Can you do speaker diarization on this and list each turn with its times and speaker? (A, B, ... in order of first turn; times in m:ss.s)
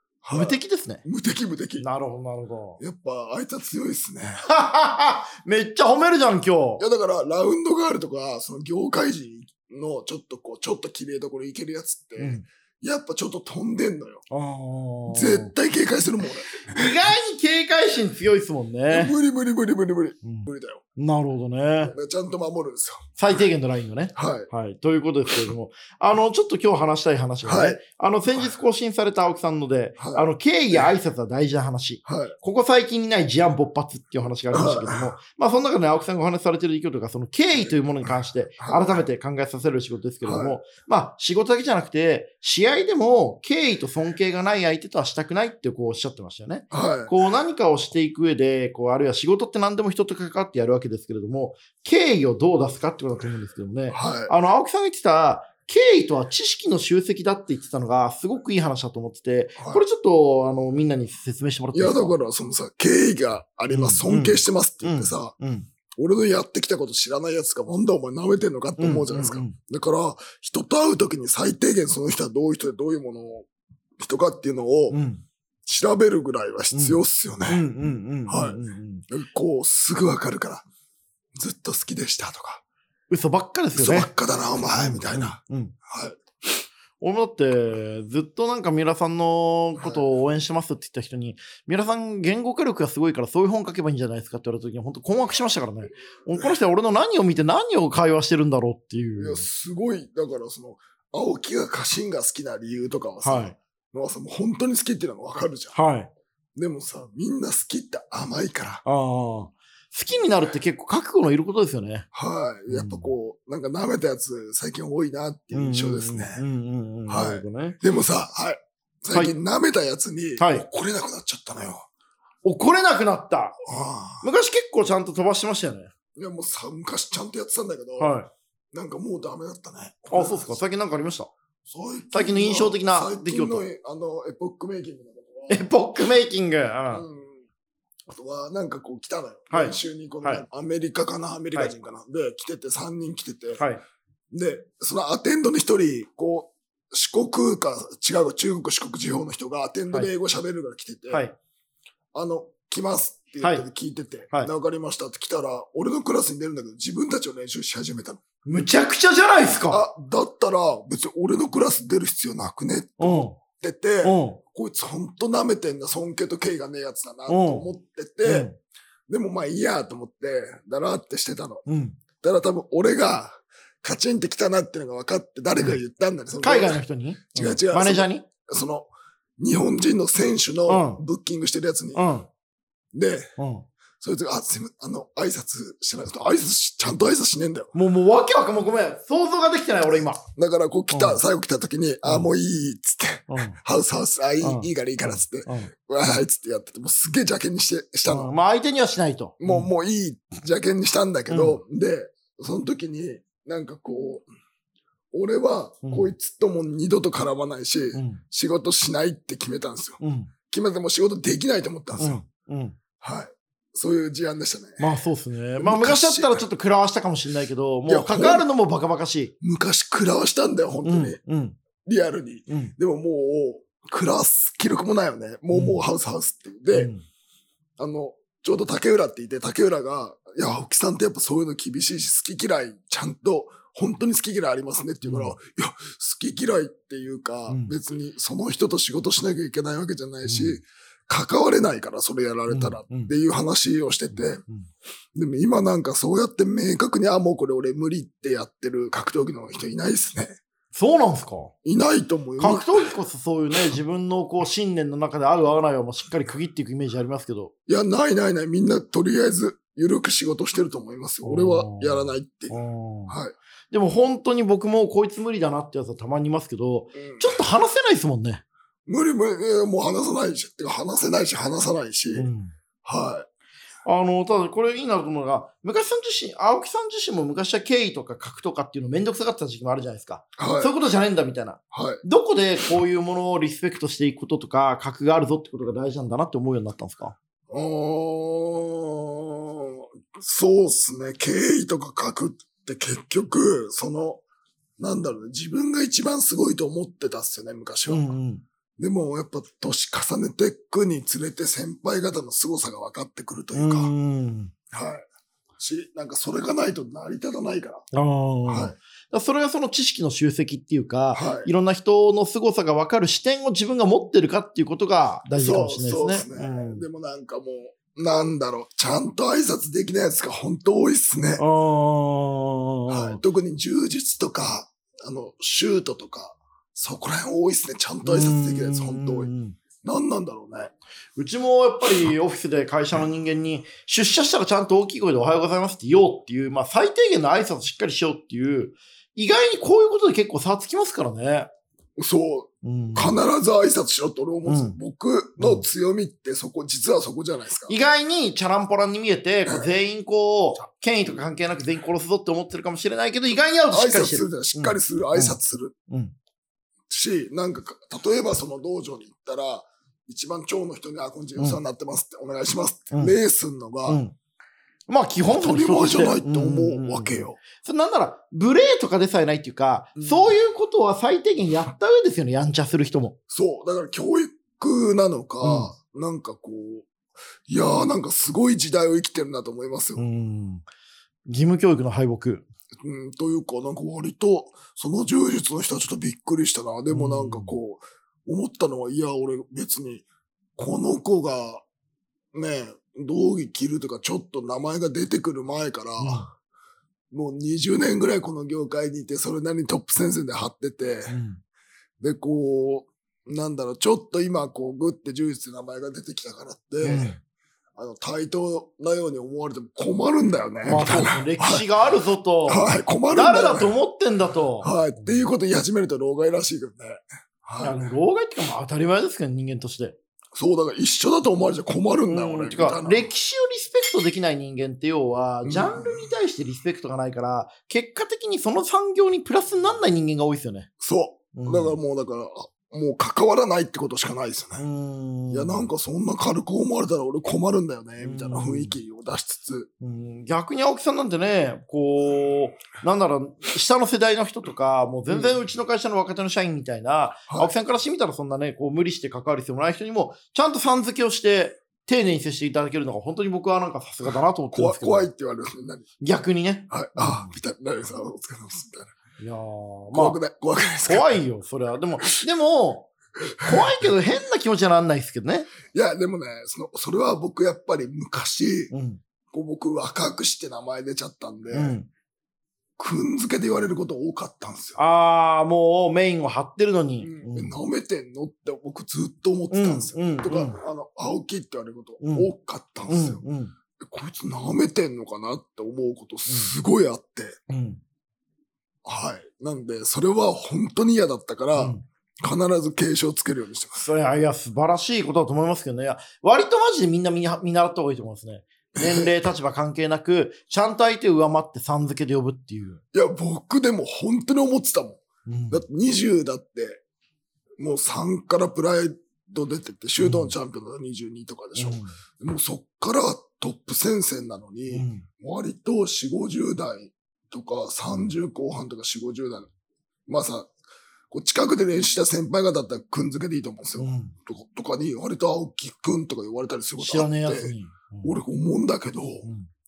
0:00.2-0:01.9 A
0:00.3-0:01.0 B
0:01.8-0:02.8 B
0:02.8-0:04.4 A
0:04.4-0:06.8 B
0:06.8-0:14.2 A
0:12.2-0:12.5 B
0:14.3-0:15.5 B
0:15.1-0:16.9 A
0:16.6-0:19.2 B
0:18.9-0:20.8 A
0:20.2-0:21.9 B
0:21.8-0:23.4 A
0:23.2-1:02.2 B
0:24.2-0:24.5 A
0:27.4-0:27.8 A
0:28.3-0:28.6 A
0:30.0-0:30.9 A
0:32.1-0:32.4 A
0:34.5-0:35.2 A
0:38.6-0:39.0 A
0:40.2-0:40.6 A
0:46.7-0:47.1 A
0:53.9-0:54.3 A
0:59.6-0:59.8 A
1:01.7-1:05.4 A
1:03.7-1:05.7 B
1:06.0-1:15.0 A
1:08.8-1:09.6 B
1:14.9-1:15.2 B
1:15.7-1:17.6 A
1:16.7-1:19.0 B
1:18.3-1:18.6 A
1:19.1-1:20.6 A
1:21.4-1:22.6 A
1:23.1-1:24.1 B
1:23.8-1:26.2 A
1:24.7-1:25.8 B
1:27.0-1:39.5 B
1:29.8-1:30.0 A
1:36.3-1:36.6 A
1:39.2-1:45.8 A
1:43.2-1:43.6 B
1:45.7-1:46.1 B
1:46.6-1:48.8 A
1:48.8-1:52.1 B
1:52.1-1:56.4 A
1:52.7-1:53.1 B
1:55.5-1:57.8 B
1:57.1-2:01.9 A
2:00.4-2:00.7 B
2:02.4-2:03.6 B
2:03.7-2:04.2 A
2:04.2-2:05.9 B
2:06.2-2:08.2 A
2:08.0-2:08.3 B
2:08.7-2:10.5 A
2:10.1-2:11.3 B
2:11.7-2:15.6 A
2:12.1-2:13.7 B
2:15.5-2:17.0 B
2:16.9-2:17.4 A
2:18.1-2:23.6 A
2:19.5-2:20.4 B
2:23.6-2:23.8 B
2:24.3-2:31.3 A
2:31.1-2:31.4 B
2:32.1-2:38.2 A
2:33.4-2:33.7 B
2:38.4-2:39.8 B
2:39.7-2:48.5 A
2:43.0-2:43.4 B
2:44.0-2:44.4 B
2:47.3-2:47.7 B
2:48.2-2:48.6 B
2:49.1-2:51.7 A
2:51.7-2:52.0 B
2:52.2-2:56.8 A
2:56.4-2:58.3 B
2:57.4-3:02.1 A
3:00.7-3:01.0 B
3:02.0-3:02.3 B
3:02.9-3:03.4 A
3:03.4-3:03.7 B
3:04.0-3:07.7 A
3:07.7-3:10.2 B
3:09.9-3:18.3 A
3:10.9-3:11.2 B
3:12.0-3:12.3 B
3:13.3-3:13.6 B
3:14.4-3:15.7 B
3:18.1-3:19.7 B
3:19.4-3:24.3 A
3:21.3-3:21.6 B
3:25.1-3:32.2 A
3:25.8-3:26.1 B
3:27.9-3:28.2 B
3:30.0-3:30.3 B
3:32.0-3:32.8 B
3:33.0-3:34.9 A
3:34.8-3:39.3 B
3:35.6-3:36.4 A
3:37.9-3:38.5 A
3:39.4-3:41.2 A
3:40.8-3:41.6 B
3:41.8-3:46.9 A
3:42.5-3:42.7 B
3:45.5-3:45.8 B
3:46.7-3:47.0 B
3:47.8-4:04.4 A
3:55.0-3:55.4 B
3:57.5-3:57.8 B
4:00.2-4:00.6 B
4:02.5-4:03.1 B
4:04.1-4:04.7 B
4:05.2-4:10.4 A
4:10.7-4:11.5 B
4:11.6-4:12.8 A
4:12.4-4:17.5 B
4:17.7-4:22.6 A
4:21.2-4:23.2 B
4:23.1-4:23.4 A
4:23.7-4:28.4 B
4:27.0-4:27.4 A
4:28.9-4:32.3 A
4:32.2-4:32.6 B
4:32.8-4:33.3 A
4:33.9-4:47.2 B
4:40.4-4:40.7 A
4:41.7-4:42.0 A
4:47.5-4:54.2 A
4:54.8-4:58.1 A
4:57.9-4:58.4 B
4:58.8-5:03.9 A
5:03.5-5:04.5 B
5:04.7-5:05.1 A
5:05.6-5:07.9 A
5:07.9-5:16.8 B
5:08.5-5:08.8 A
5:11.1-5:11.5 A
5:15.4-5:21.4 A
5:21.4-5:23.2 B
5:22.9-5:29.3 A
5:28.0-5:29.6 B
5:29.8-5:30.7 A
5:31.2-5:41.5 B
5:42.0-5:47.8 A
5:42.6-5:43.2 B
5:44.5-5:44.8 B
5:45.4-5:45.7 B
5:47.7-5:55.4 B
5:53.7-5:55.7 A
5:55.9-5:56.2 B
5:56.9-6:04.0 A
6:03.9-6:04.1 B
6:04.9-6:13.2 B
6:05.2-6:07.4 A
6:10.0-6:10.4 A
6:13.3-6:16.9 A
6:15.4-6:15.7 B
6:17.5-6:20.0 A
6:20.0-6:20.6 B
6:21.3-6:22.5 B
6:22.8-6:31.6 A
6:26.9-6:27.6 B
6:32.3-6:36.3 A
6:36.0-6:36.3 B
6:37.1-6:41.2 A
6:41.1-6:41.4 B
6:42.0-6:47.1 A
6:46.8-6:47.2 B
6:47.8-6:51.7 A
6:50.7-6:55.2 B
6:52.5-6:53.8 A
6:54.6-6:57.8 A
6:57.6-7:00.0 B
7:00.4-7:03.1 A
7:02.1-7:10.7 B
7:05.4-7:06.1 A
7:10.8-7:14.6 A
7:11.3-7:11.8 B
7:14.6-7:15.7 B
7:15.3-7:19.7 A
7:18.0-7:18.8 B
7:19.8-7:35.1 B
7:25.1-7:25.4 A
7:34.5-7:35.9 A
7:36.0-7:37.3 B
7:36.7-7:38.9 A
7:39.2-7:40.2 B
7:39.9-7:41.2 A
7:40.8-7:45.5 B
7:45.7-7:48.7 A
7:48.7-7:49.0 B
7:49.3-7:51.8 A
7:51.5-7:51.9 B
7:52.8-7:54.8 A
7:54.8-7:57.6 B
7:57.0-8:03.2 A
7:59.5-8:00.6 B
8:02.0-8:02.3 B
8:02.9-8:03.5 B
8:03.8-8:07.4 A
8:06.3-8:06.5 B
8:07.5-8:07.8 B
8:08.8-8:13.9 A
8:11.6-8:11.8 B
8:13.8-8:22.8 B
8:18.8-8:19.3 A
8:22.9-8:26.8 A
8:25.3-8:25.6 B
8:27.6-8:39.5 A
8:30.0-8:30.3 B
8:31.6-8:32.0 B
8:34.7-8:35.1 B
8:40.1-8:40.5 A
8:41.1-8:49.3 A
8:43.8-8:44.2 B
8:46.8-8:48.1 B
8:49.2-8:49.5 B